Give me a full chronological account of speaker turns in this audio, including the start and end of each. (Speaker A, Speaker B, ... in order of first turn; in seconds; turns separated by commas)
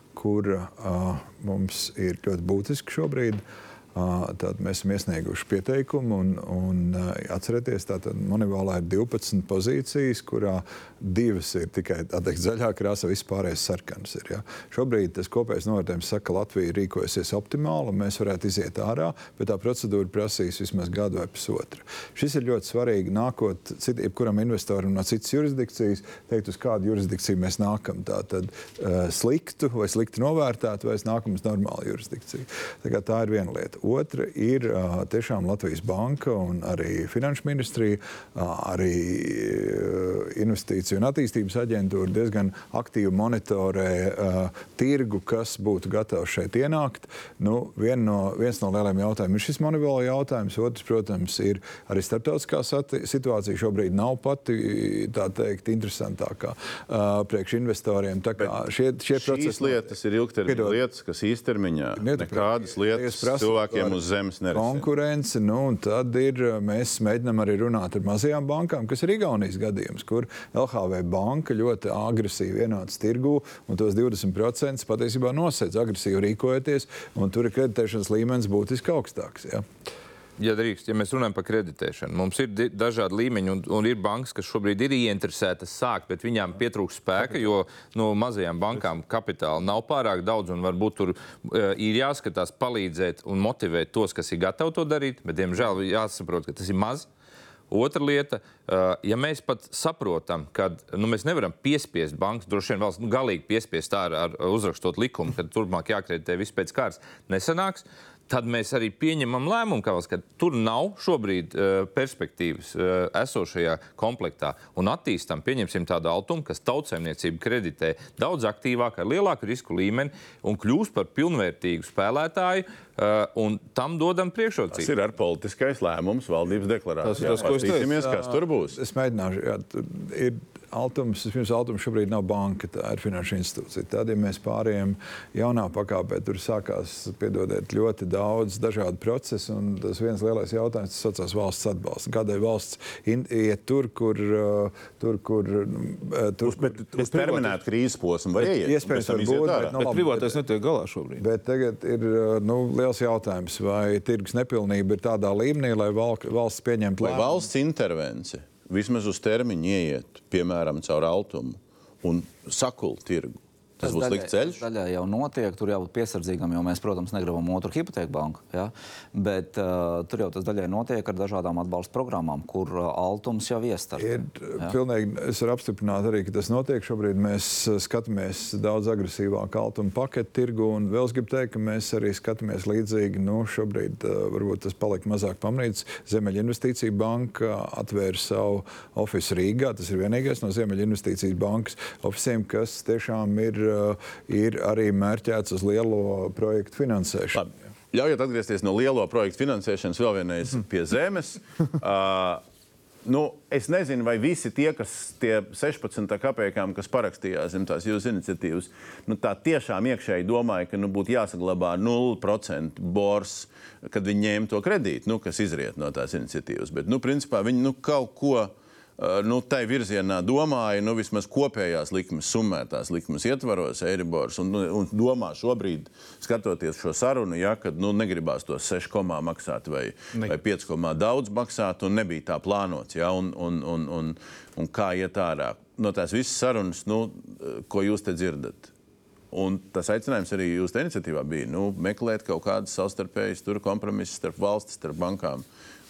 Speaker A: 0.1-3.4, Speaker A: 4.0-59.9, Speaker B: 58.4-64.9, Speaker A: 60.5-60.8, Speaker A: 62.0-64.0, Speaker A: 64.5-79.7, Speaker C: 80.4-97.1, Speaker C: 97.7-124.9, Speaker B: 124.7-128.8, Speaker A: 127.0-147.6, Speaker D: 127.1-128.0, Speaker B: 146.4-149.8, Speaker A: 148.4-150.4, Speaker D: 149.8-151.2, Speaker A: 151.2-157.5, Speaker B: 157.0-164.6, Speaker E: 163.8-174.8, Speaker A: 174.0-197.5, Speaker B: 197.3-202.4, Speaker B: 203.1-238.7, Speaker B: 239.3-245.4